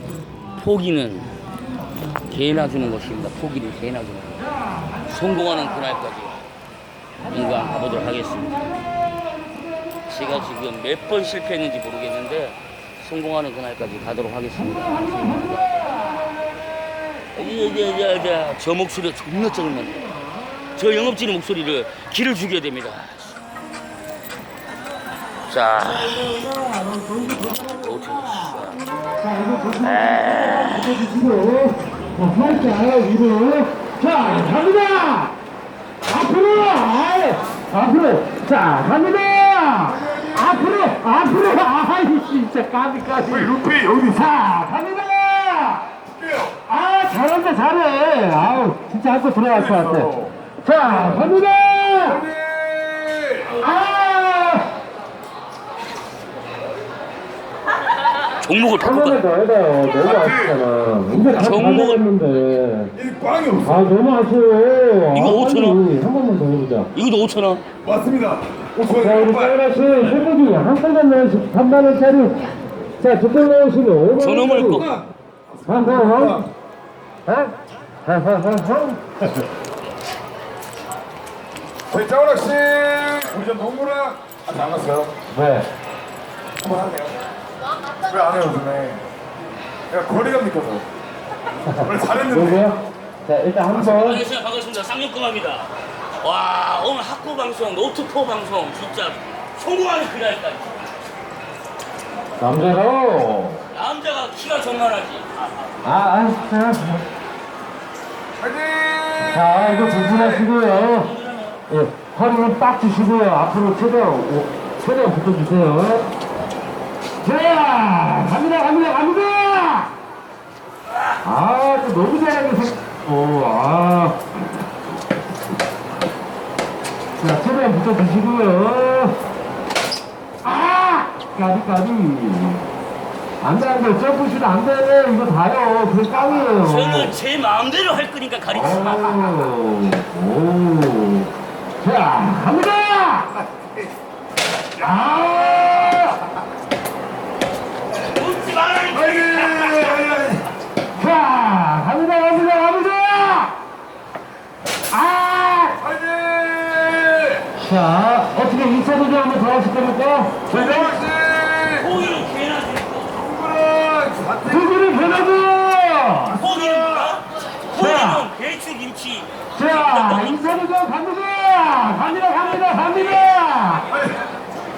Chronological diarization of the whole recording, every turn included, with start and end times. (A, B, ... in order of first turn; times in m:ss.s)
0:00.6-0:01.3 A
0:02.2-0:04.4 A
0:04.9-0:05.5 B
0:05.1-0:06.4 A
0:07.3-0:08.7 A
0:07.3-0:10.4 B
0:10.1-0:16.0 A
0:14.6-0:18.2 B
0:17.3-0:20.0 A
0:19.6-0:20.8 B
0:20.7-0:23.3 A
0:25.5-0:26.4 A
0:26.0-0:28.5 B
0:27.3-0:28.8 A
0:29.2-0:35.4 B
0:29.8-0:31.0 A
0:36.1-0:43.5 B
0:39.9-0:40.8 C
0:43.3-0:44.4 C
0:44.1-0:46.0 B
0:46.2-0:46.6 C
0:46.7-0:52.3 B
0:49.5-0:50.3 C
0:52.0-0:53.6 C
0:53.6-0:54.7 B
0:58.4-0:59.2 A
0:58.8-1:03.0 B
1:00.0-1:00.6 C
1:01.2-1:02.0 A
1:03.0-1:03.9 C
1:03.6-1:06.9 B
1:05.1-1:05.8 A
1:06.9-1:07.6 A
1:07.8-1:09.6 C
1:09.0-1:14.9 B
1:14.2-1:14.9 A
1:14.8-1:15.0 C
1:15.6-1:16.5 C
1:15.7-1:16.5 B
1:17.3-1:17.5 B
1:18.0-1:19.4 B
1:21.9-1:25.2 C
1:25.3-1:25.7 B
1:26.6-1:27.2 C
1:28.0-1:29.0 C
1:29.9-1:30.8 C
1:31.7-1:34.3 B
1:31.8-1:32.7 C
1:33.7-1:40.8 A
1:42.4-1:43.6 B
1:43.7-1:45.7 A
1:45.8-1:47.0 B
1:48.4-1:50.5 C
1:49.3-1:51.2 B
1:51.2-1:51.5 A
1:51.7-1:56.1 B
1:57.2-1:59.9 B
2:01.2-2:04.3 B
2:07.2-2:09.2 B
2:10.4-2:12.7 B
2:13.4-2:17.2 B
2:16.5-2:19.5 A
2:18.5-2:23.4 B
2:24.8-2:26.3 B
2:28.1-2:30.2 A
2:28.9-2:30.5 C
2:30.9-2:33.6 B
2:34.9-2:35.8 B
2:35.8-2:37.5 C
2:37.6-2:41.0 B
2:40.5-2:42.2 C
2:41.7-2:43.2 A
2:43.2-2:45.2 C
2:44.5-2:46.4 B
2:46.3-2:50.5 A
2:46.3-2:47.2 C
2:47.7-2:48.3 B
2:49.6-2:53.9 B
2:53.9-2:54.2 C